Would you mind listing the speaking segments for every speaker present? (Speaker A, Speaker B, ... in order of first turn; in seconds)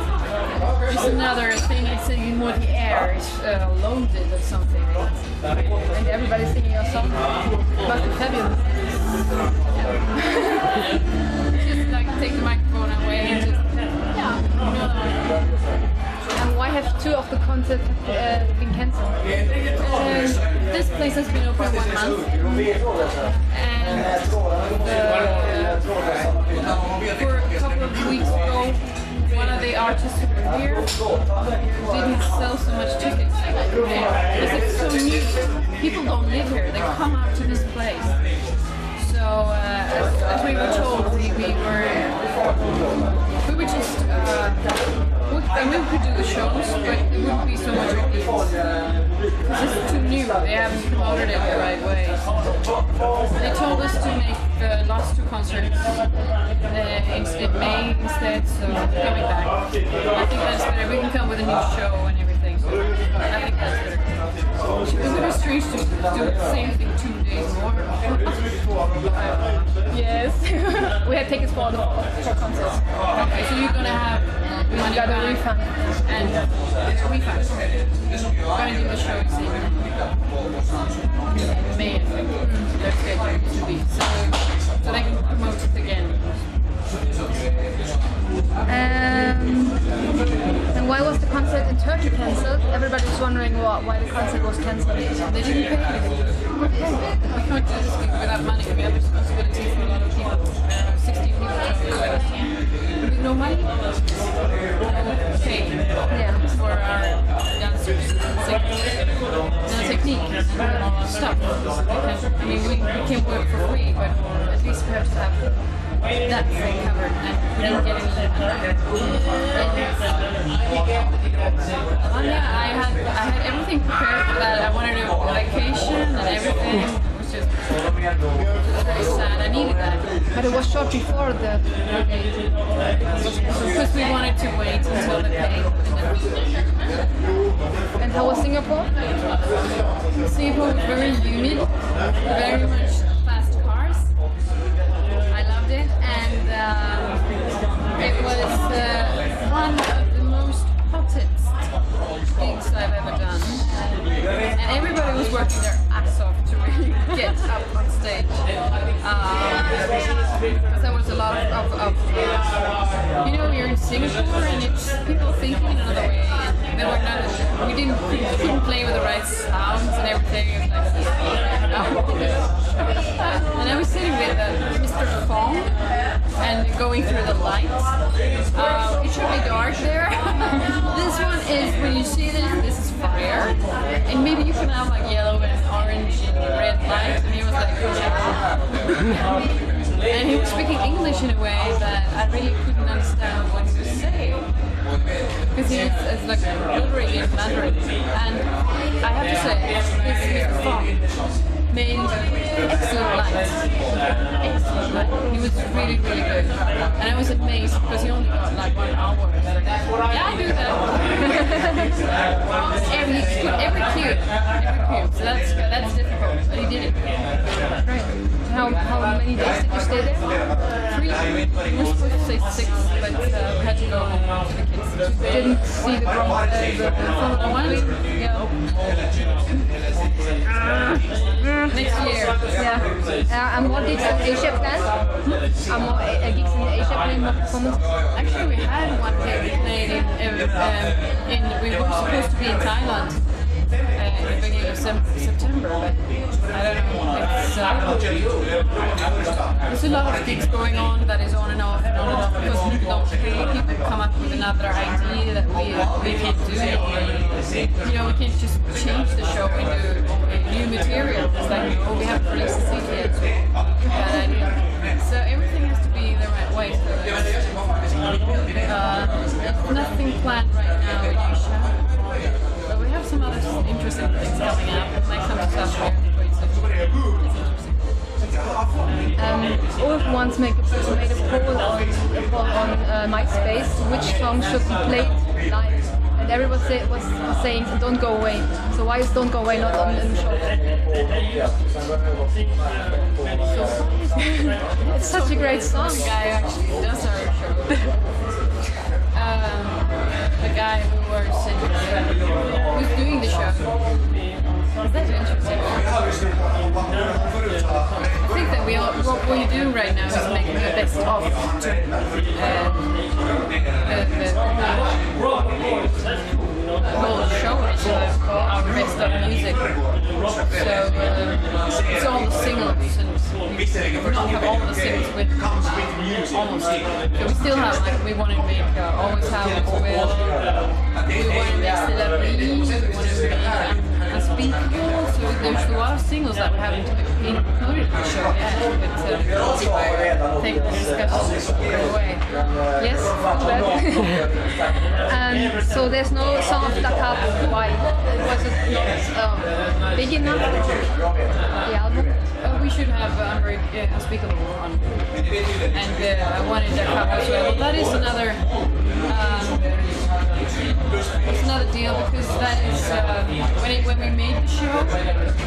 Speaker A: 0.8-5.3, 11.6-13.8, 14.4-15.3, 19.8-22.5, 23.4-25.8, 27.1-31.0, 31.6-38.2, 39.0-42.3, 43.4-44.7, 45.3-48.5, 49.4-52.3, 53.4-64.3, 64.8-69.7, 73.1-75.5, 76.0-77.8, 78.5-79.9, 81.4-86.4, 97.2-104.2, 104.8-120.0, 122.0-127.7, 128.7-130.1, 133.3-137.0, 140.2-144.1, 145.3-147.4, 147.9-151.6, 152.3-153.7, 154.6-158.5, 159.0-162.5, 163.2-175.8, 176.3-177.9, 178.5-189.2, 190.1-194.5, 195.5-201.0, 201.7-203.6, 204.4-211.6, 212.5-217.0, 220.9-225.6, 227.1-228.6, 231.7-232.4, 238.1-243.2, 243.9-248.1, 249.7-267.6, 268.6-271.8, 272.6-277.9, 293.5-298.0, 299.1-303.8, 304.8-305.9, 308.2-313.0, 313.8-315.1, 316.8-319.8, 320.5-330.4, 331.1-344.1, 352.4-355.0, 355.6-359.8, 361.2-365.3
Speaker B: 5.9-7.2, 7.8-8.9, 10.2-10.8, 16.3-19.4, 69.9-72.8, 74.7-76.0, 82.4-82.7, 88.7-89.8, 90.7-97.2, 106.1-106.4, 130.3-133.7, 138.0-138.9, 217.8-220.3, 225.2-227.3, 232.6-234.9, 235.7-237.8, 278.2-278.6, 279.1-290.6, 294.8-296.1, 345.1-351.0, 351.6-352.3